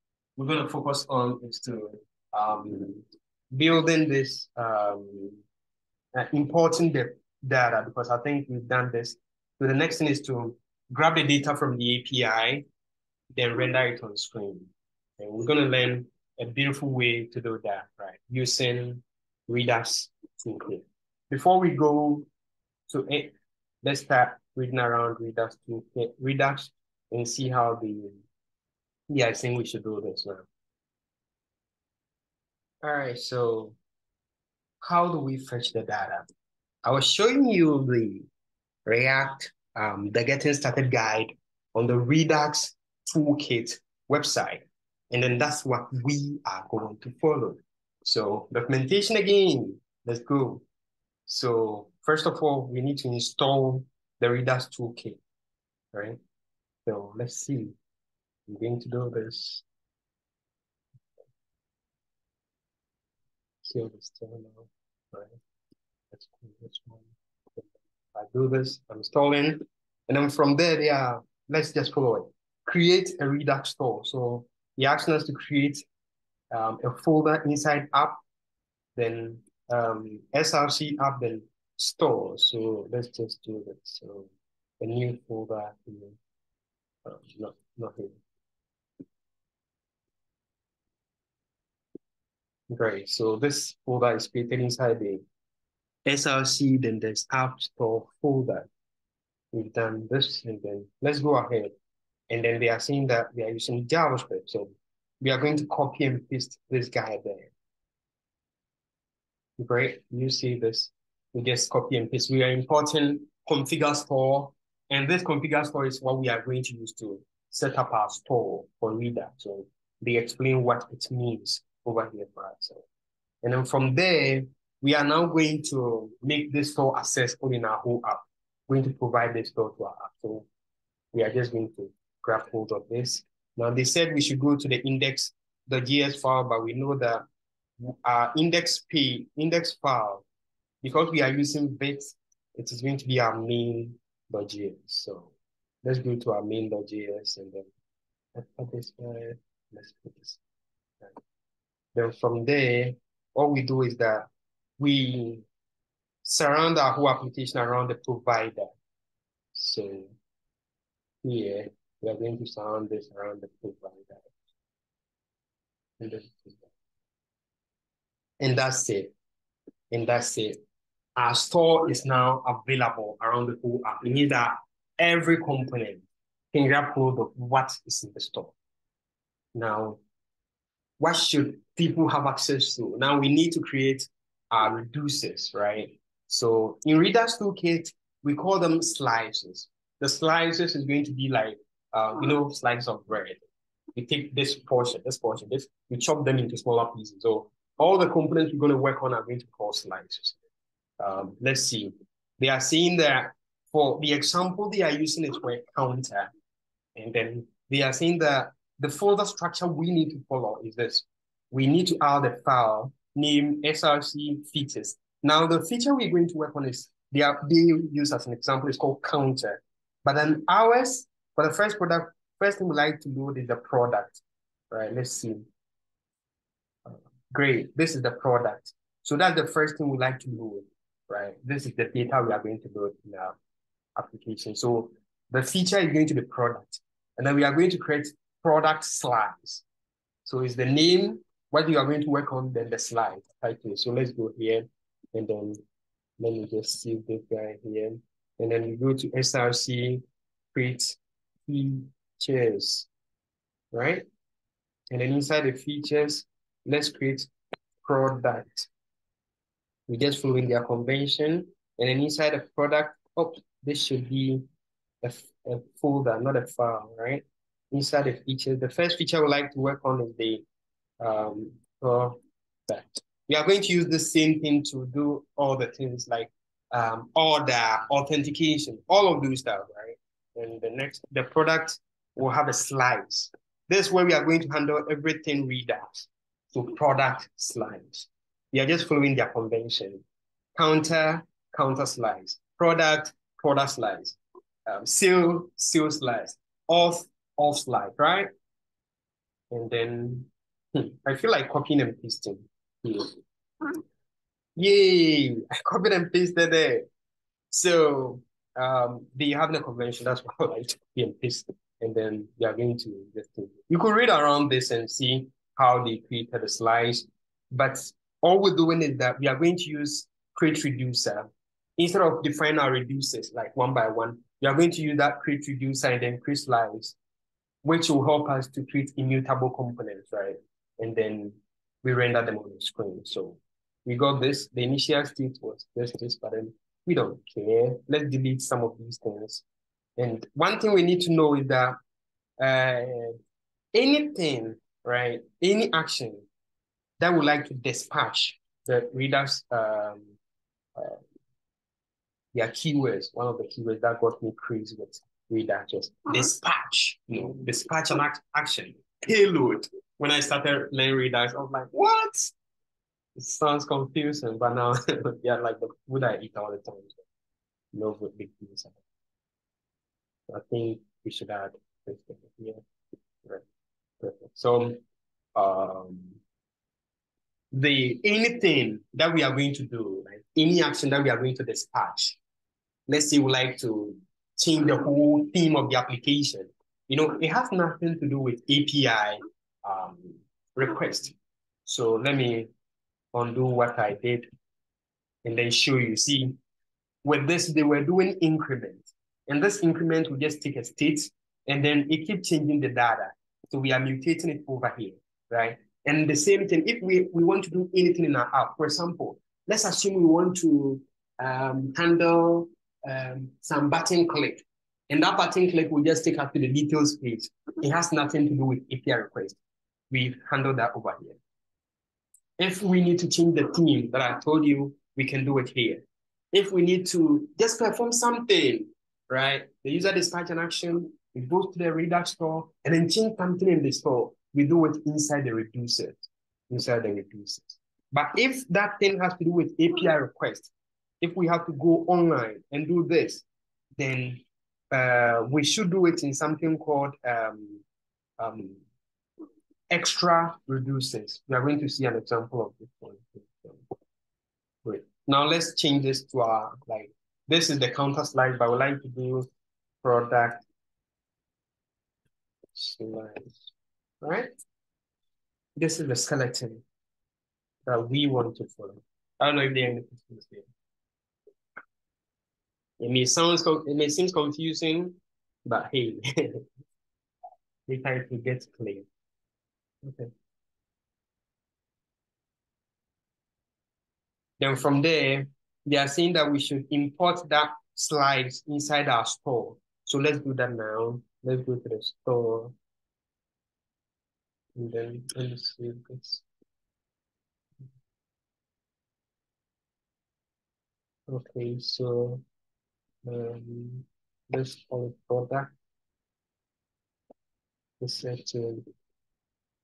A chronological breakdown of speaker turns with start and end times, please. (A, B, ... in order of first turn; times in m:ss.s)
0:00.4-0:05.4 A
0:06.2-0:12.7 A
0:13.3-0:22.3 A
0:22.9-0:28.2 A
0:29.1-0:30.5 A
0:32.8-0:33.8 A
0:34.8-0:36.3 A
0:36.8-0:38.3 A
0:38.9-0:50.6 A
0:51.3-0:55.2 A
0:55.9-0:56.2 A
0:56.9-0:57.8 A
0:58.5-0:59.6 A
1:03.6-1:05.4 A
1:06.1-1:15.9 A
1:16.5-1:18.2 A
1:19.0-1:26.2 A
1:27.0-1:28.2 A
1:32.7-1:35.2 A
1:36.0-1:38.7 A
1:39.5-1:41.7 A
1:42.3-1:47.5 A
1:49.6-2:02.8 A
2:03.4-2:10.5 A
2:11.1-2:17.3 A
2:17.8-2:20.2 A
2:20.8-2:25.3 A
2:25.8-2:27.7 A
2:28.4-2:30.4 A
2:32.0-2:34.3 A
2:34.8-2:35.4 A
2:36.2-2:38.8 A
2:39.5-2:40.1 A
2:41.2-2:44.3 A
2:46.0-2:46.7 A
2:48.4-2:49.1 A
2:49.9-2:50.6 A
2:51.2-2:58.6 A
2:59.5-3:00.0 A
3:01.0-3:13.4 A
3:14.0-3:20.4 A
3:21.0-3:26.3 A
3:27.0-3:45.5 A
3:46.9-3:53.4 A
3:54.0-3:59.6 A
4:00.2-4:05.6 A
4:06.2-4:10.0 A
4:10.5-4:12.9 A
4:13.7-4:14.1 A
4:14.9-4:17.3 A
4:17.8-4:18.7 A
4:19.9-4:24.4 A
4:25.0-4:30.4 A
4:31.0-4:50.0 A
4:50.6-4:58.3 A
4:59.5-5:03.2 A
5:04.6-5:06.9 A
5:07.5-5:27.0 A
5:27.6-5:39.4 A
5:40.0-5:41.8 A
5:42.4-5:43.2 A
5:43.7-5:46.3 A
5:47.0-5:50.2 A
5:50.8-5:51.0 A
5:52.3-6:02.4 A
6:03.2-6:07.0 A
6:07.7-6:08.8 A
6:10.3-6:12.6 A
6:14.0-6:14.8 A
6:15.4-6:16.2 A
6:17.5-6:22.2 A
6:22.9-6:31.2 A
6:31.7-6:32.5 A
6:33.1-6:34.3 A
6:35.2-6:36.4 A
6:37.0-6:59.4 A
6:59.9-7:01.2 A
7:02.4-7:23.2 A
7:23.8-7:27.6 A
7:28.2-7:28.6 A
7:29.7-7:33.6 A
7:34.6-7:39.3 A
7:39.8-7:40.4 A
7:42.5-7:44.3 A
7:45.6-7:46.6 A
7:47.7-7:50.5 A
7:52.8-7:56.4 A
7:57.7-7:58.9 A
7:59.8-8:00.1 A
8:04.4-8:12.6 A
8:14.6-8:16.2 A
8:21.1-8:22.2 A
8:23.0-8:25.5 A
8:27.8-8:28.7 A